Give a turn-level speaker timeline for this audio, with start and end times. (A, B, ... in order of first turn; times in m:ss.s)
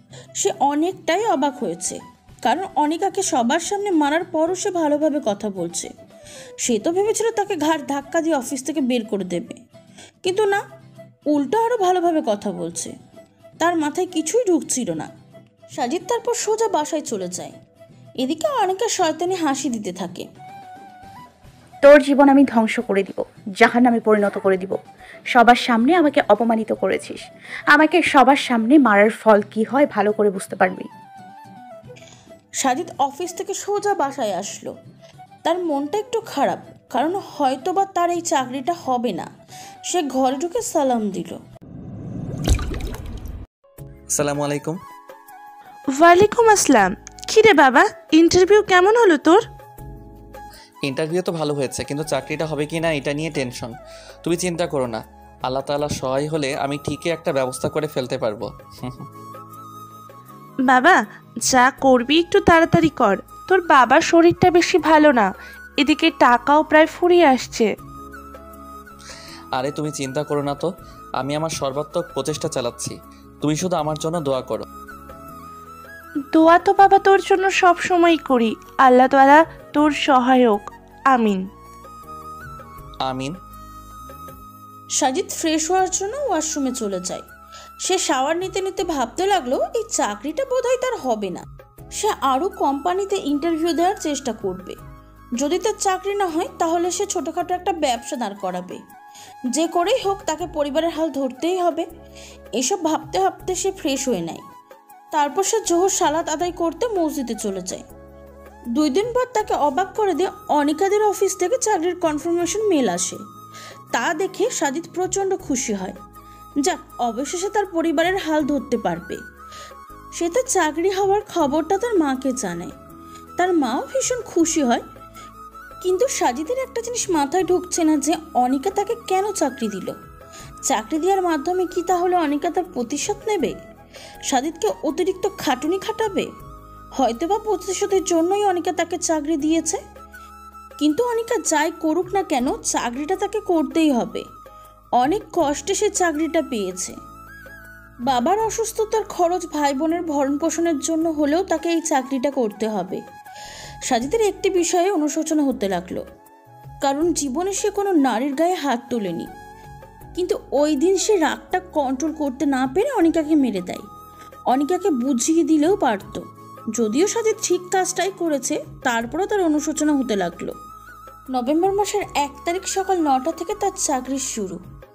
0:00.4-0:05.9 A
0:06.6-0:09.6 A
0:10.2-0:10.6 A
0:11.3-0:12.9 A
0:13.6-0:15.1 A
0:15.8-0:17.5 A
0:18.2-0:20.2 A
0:21.8-0:24.8 B
0:25.3-0:27.2 B
0:27.7-0:30.9 B
0:32.6-0:34.7 A
0:35.4-0:39.3 A
0:39.9-0:41.4 A
0:44.1-0:44.8 C
0:46.0-0:49.4 D
0:50.8-0:53.7 C
0:54.2-0:59.1 C
1:00.7-1:05.3 D
1:05.8-1:07.7 D
1:09.6-1:10.7 C
1:11.2-1:14.6 C
1:16.3-1:21.4 D
1:23.0-1:23.3 C
1:25.0-1:27.2 A
1:27.8-1:31.4 A
1:31.9-1:34.8 A
1:35.4-1:38.8 A
1:39.5-1:41.9 A
1:42.6-1:44.4 A
1:45.1-1:47.8 A
1:48.8-1:53.2 A
1:53.9-1:56.0 A
1:56.6-1:59.2 A
2:00.2-2:02.7 A
2:03.4-2:04.8 A
2:05.8-2:09.9 A
2:10.7-2:13.6 A
2:14.3-2:16.3 A
2:17.0-2:19.8 A
2:20.8-2:24.2 A
2:25.0-2:27.0 A
2:28.1-2:33.0 A
2:33.9-2:36.0 A
2:36.8-2:39.3 A
2:40.2-2:43.8 A
2:44.5-2:46.2 A
2:46.8-2:50.5 A
2:51.3-2:54.6 A